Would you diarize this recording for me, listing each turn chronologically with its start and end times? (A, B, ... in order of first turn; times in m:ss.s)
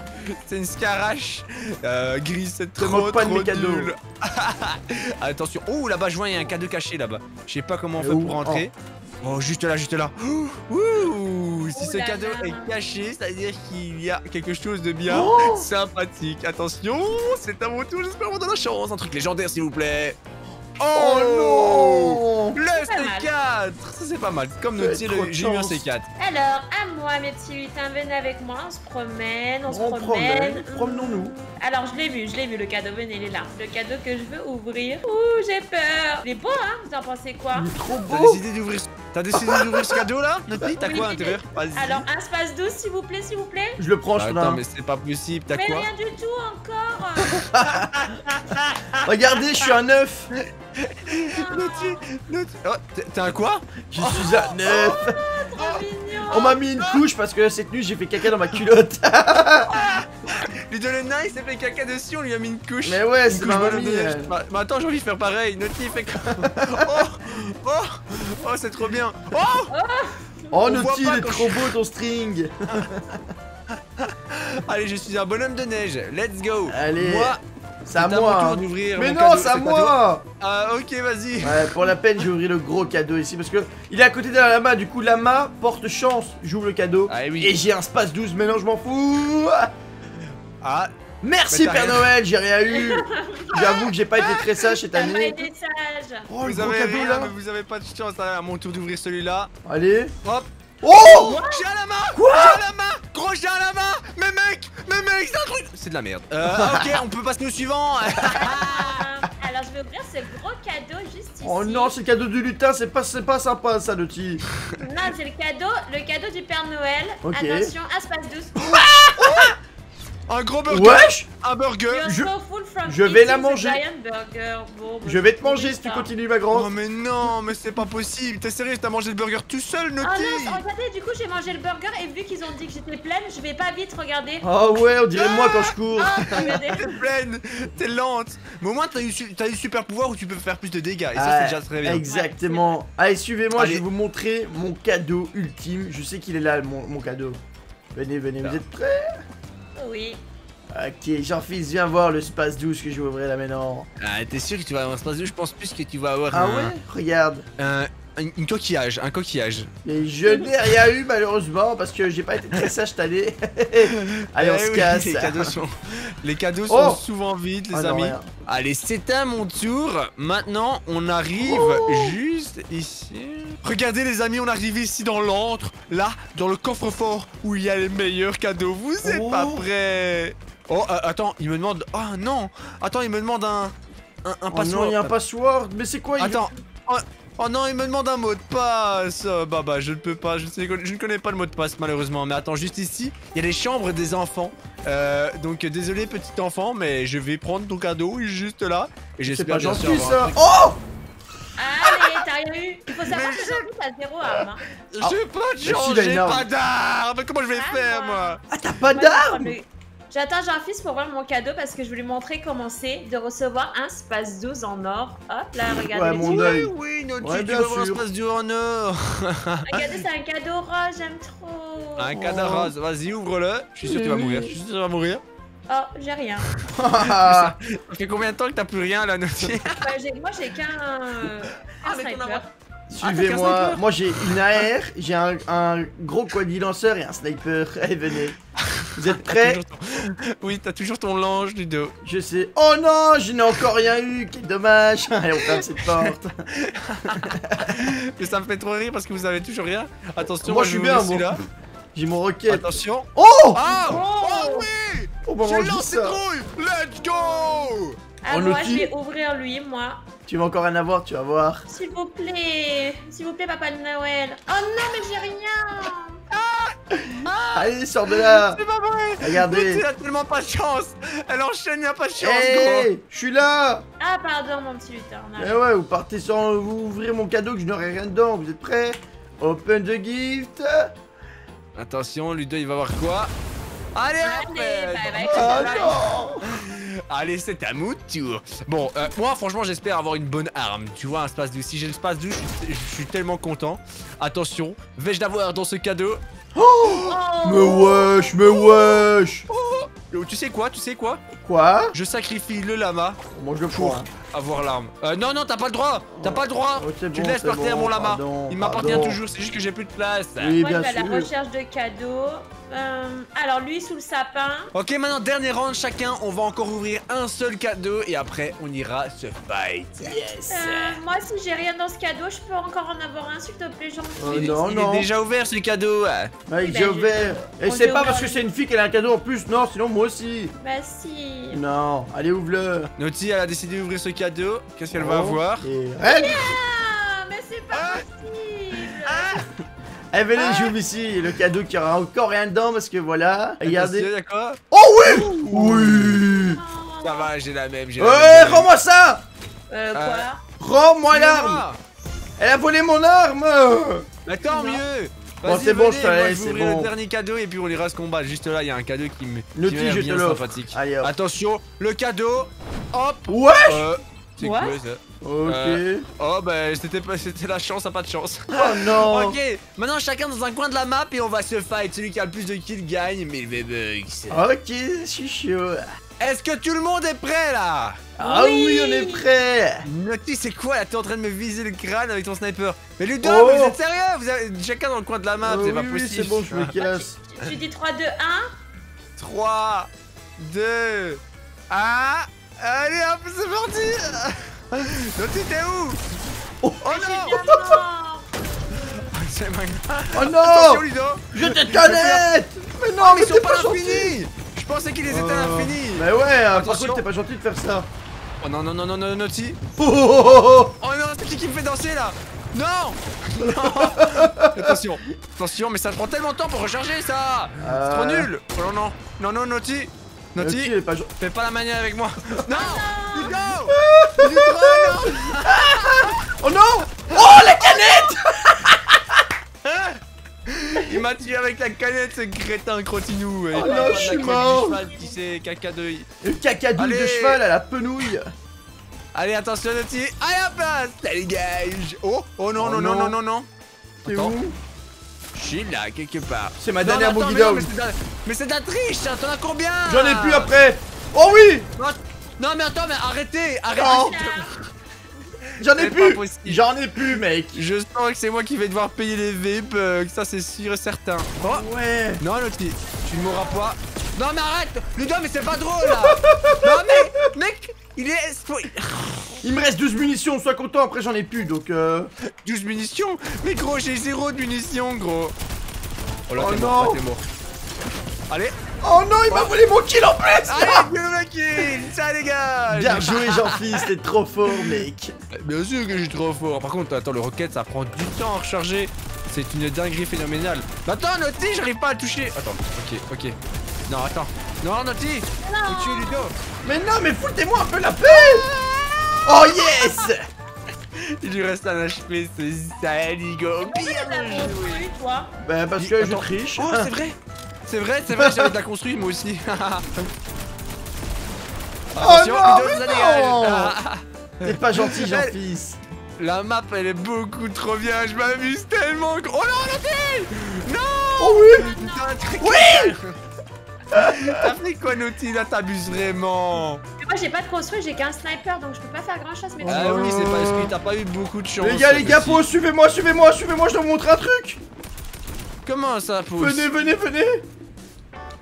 0:00.3-0:20.2 A
0:02.8-0:03.9 B
0:08.0-0:08.6 B
0:11.7-0:12.7 C
0:15.0-0:15.7 B
0:20.8-0:26.0 A
0:20.9-0:22.6 B
0:22.7-0:23.3 C
0:24.8-0:25.8 B
0:26.2-0:37.8 C
0:29.7-0:31.3 B
0:37.5-0:38.4 B
0:38.1-0:42.0 A
0:39.3-0:40.0 B
0:40.8-0:43.8 C
0:43.8-0:44.6 B
0:44.2-0:45.9 A
0:45.5-0:47.4 C
0:47.2-0:49.1 A
0:47.5-0:48.0 B
0:49.0-0:50.3 B
0:50.3-0:54.6 A
0:51.2-0:52.0 C
0:53.9-0:55.2 B
0:54.6-0:56.6 C
0:55.6-0:55.8 A
0:56.3-0:59.7 B
0:56.8-0:57.0 A
0:59.7-1:09.7 A
1:02.8-1:04.3 B
1:06.2-1:07.0 B
1:09.7-1:10.6 C
1:10.5-1:13.2 B
1:10.6-1:11.7 A
1:14.0-1:17.4 A
1:16.7-1:20.2 B
1:18.0-1:21.7 A
1:21.4-1:29.7 B
1:27.1-1:27.6 A
1:30.6-1:30.9 A
1:31.2-1:35.5 B
1:31.5-1:32.1 A
1:32.7-1:33.7 C
1:33.7-1:34.8 A
1:34.9-1:36.3 C
1:36.3-1:37.3 B
1:36.4-1:39.5 A
1:39.6-1:40.1 B
1:40.2-1:49.0 A
1:40.8-1:41.4 B
1:41.0-1:41.6 C
1:42.1-1:42.6 B
1:46.6-1:46.9 B
1:48.3-1:51.9 C
1:51.4-1:54.4 B
1:54.8-1:58.9 C
1:57.2-1:57.7 B
1:58.6-1:59.5 A
1:59.2-1:59.5 B
2:00.3-2:02.1 A
2:00.7-2:01.3 B
2:01.9-2:06.1 C
2:02.0-2:02.3 B
2:02.8-2:03.8 B
2:05.0-2:06.7 B
2:06.5-2:10.6 A
2:10.0-2:14.4 C
2:14.4-2:16.4 B
2:15.2-2:22.0 A
2:15.9-2:17.0 C
2:21.1-2:27.4 B
2:22.0-2:22.8 C
2:23.6-2:23.8 A
2:27.9-2:29.1 B
2:29.8-2:30.2 C
2:30.7-2:33.9 B
2:34.0-2:36.7 A
2:36.3-2:37.4 B
2:37.6-2:39.7 A
2:39.8-2:45.5 B
2:43.9-3:05.1 A
2:46.7-2:47.0 B
2:47.7-2:48.3 B
2:51.4-2:52.2 B
2:59.0-2:59.6 B
3:04.5-3:06.4 B
3:06.2-3:20.4 A
3:19.3-3:20.8 B
3:21.6-3:24.6 C
3:23.0-3:23.6 A
3:24.9-3:28.4 A
3:25.0-3:26.5 B
3:27.5-3:36.6 C
3:28.5-3:29.5 B
3:35.8-3:38.0 B
3:36.2-3:39.8 A
3:39.7-3:42.2 C
3:42.0-3:45.2 A
3:42.1-3:42.7 B
3:43.8-3:44.6 B
3:45.7-3:46.5 C
3:46.7-3:47.5 B
3:47.0-3:49.8 A
3:49.6-3:52.4 C
3:51.8-3:52.5 A
3:52.9-3:58.4 B
3:53.0-3:54.6 A
3:58.7-4:01.9 A
3:59.0-3:59.6 B
4:02.0-4:06.3 B
4:05.4-4:11.4 A
4:07.1-4:07.7 B
4:10.2-4:11.3 B
4:11.9-4:13.7 B
4:12.5-4:18.0 A
4:13.7-4:14.7 C
4:15.2-4:16.2 B
4:18.2-4:20.0 C
4:18.3-4:18.9 B
4:20.3-4:21.6 B
4:21.7-4:26.2 C
4:26.3-4:32.9 A
4:27.5-4:28.6 B
4:29.2-4:29.8 B
4:32.2-4:33.8 B
4:34.0-4:35.6 C
4:35.4-4:40.9 B
4:41.7-4:43.3 A
4:43.9-4:56.2 A
4:44.2-4:46.0 C
4:45.2-4:46.4 B
4:56.5-4:59.4 B
4:57.0-4:59.0 C
4:59.5-5:01.2 A
5:01.3-5:02.0 B
5:01.9-5:03.2 A
5:03.3-5:04.1 B
5:03.7-5:10.6 A
5:06.1-5:09.2 B
5:10.4-5:11.3 B
5:10.6-5:14.7 C
5:14.7-5:20.2 A
5:20.0-5:21.0 B
5:20.5-5:24.5 C
5:24.2-5:25.1 B
5:24.2-5:26.3 A
5:26.5-5:30.5 B
5:26.6-5:28.4 C
5:30.6-5:31.6 C
5:31.5-5:32.9 B
5:33.0-5:35.7 A
5:34.9-5:36.5 B
5:36.0-5:39.4 C
5:37.7-5:38.0 A
5:39.0-5:39.4 A
5:40.1-5:44.1 B
5:40.4-5:40.7 C
5:43.6-5:46.2 A
5:44.7-5:46.6 B
5:46.4-5:47.3 C
5:47.0-5:48.7 A
5:48.0-5:49.2 B
5:49.7-5:50.4 C
5:49.9-5:50.3 A
5:50.6-5:51.6 B
5:51.1-5:51.8 A
5:52.4-5:54.0 B
5:54.2-6:14.4 A
5:54.4-5:54.8 C
5:55.4-5:56.9 B
5:59.5-6:01.1 B
6:03.3-6:03.8 B
6:04.4-6:04.8 C
6:05.2-6:06.0 B
6:08.5-6:09.4 B
6:14.3-6:15.8 B
6:16.2-6:18.0 A
6:18.2-6:19.8 B
6:18.2-6:19.2 C
6:19.8-6:27.5 A
6:23.2-6:23.8 B
6:25.4-6:27.2 B
6:27.2-6:28.5 C
6:29.2-6:36.0 A
6:36.6-6:37.8 B
6:36.8-6:37.4 A
6:36.9-6:38.9 C
6:38.7-6:42.2 A
6:40.1-6:44.2 B
6:43.0-6:47.0 A
6:45.1-6:47.9 B
6:48.4-6:49.6 A
6:49.8-6:50.7 B
6:50.8-7:06.3 A
6:53.4-6:54.8 B
6:57.6-6:58.3 B
7:00.4-7:01.1 B
7:02.5-7:03.5 C
7:03.7-7:09.2 B
7:07.1-7:07.8 A
7:09.6-7:16.0 A
7:13.5-7:14.8 B
7:13.6-7:14.2 C
7:16.2-7:18.3 B
7:16.8-7:17.4 A
7:19.1-7:23.5 A
7:22.6-7:23.2 B
7:24.0-7:24.4 A
7:24.0-7:24.5 B
7:25.3-7:30.5 A
7:26.6-7:27.7 B
7:29.9-7:31.7 B
7:31.8-7:34.6 A
7:33.8-7:34.5 C
7:33.8-7:34.1 B
7:35.6-7:36.6 A
7:35.6-7:37.6 B
7:37.5-7:41.6 A
7:41.4-7:42.2 B
7:42.2-7:49.4 A
7:43.2-7:43.6 C
7:45.8-7:47.0 B
7:49.4-7:52.1 B
7:52.4-7:55.3 A
7:56.3-7:57.2 A
7:56.4-7:57.0 B
7:58.8-8:00.9 B
8:00.4-8:03.8 A
8:02.7-8:05.1 B
8:04.5-8:04.8 A
8:05.3-8:13.4 A
8:13.9-8:16.3 A
8:15.4-8:16.2 C
8:16.6-8:18.4 B
8:18.0-8:19.7 A
8:19.2-8:20.2 B
8:21.2-8:24.8 A
8:23.6-8:25.3 C
8:25.4-8:26.9 B
8:25.8-8:30.1 A
8:28.1-8:28.5 B
8:31.9-8:35.3 A
8:32.0-8:33.8 B
8:34.4-8:35.8 B
8:36.2-8:43.1 A
8:41.2-8:41.8 B
8:41.6-8:42.0 C
8:42.4-8:43.0 B
8:43.9-8:44.5 B
8:43.9-8:46.8 A
8:47.0-8:50.1 C
8:49.6-8:50.7 B
8:49.6-8:52.4 A
8:51.6-8:54.6 B
8:55.6-8:56.7 A
8:56.4-8:57.4 B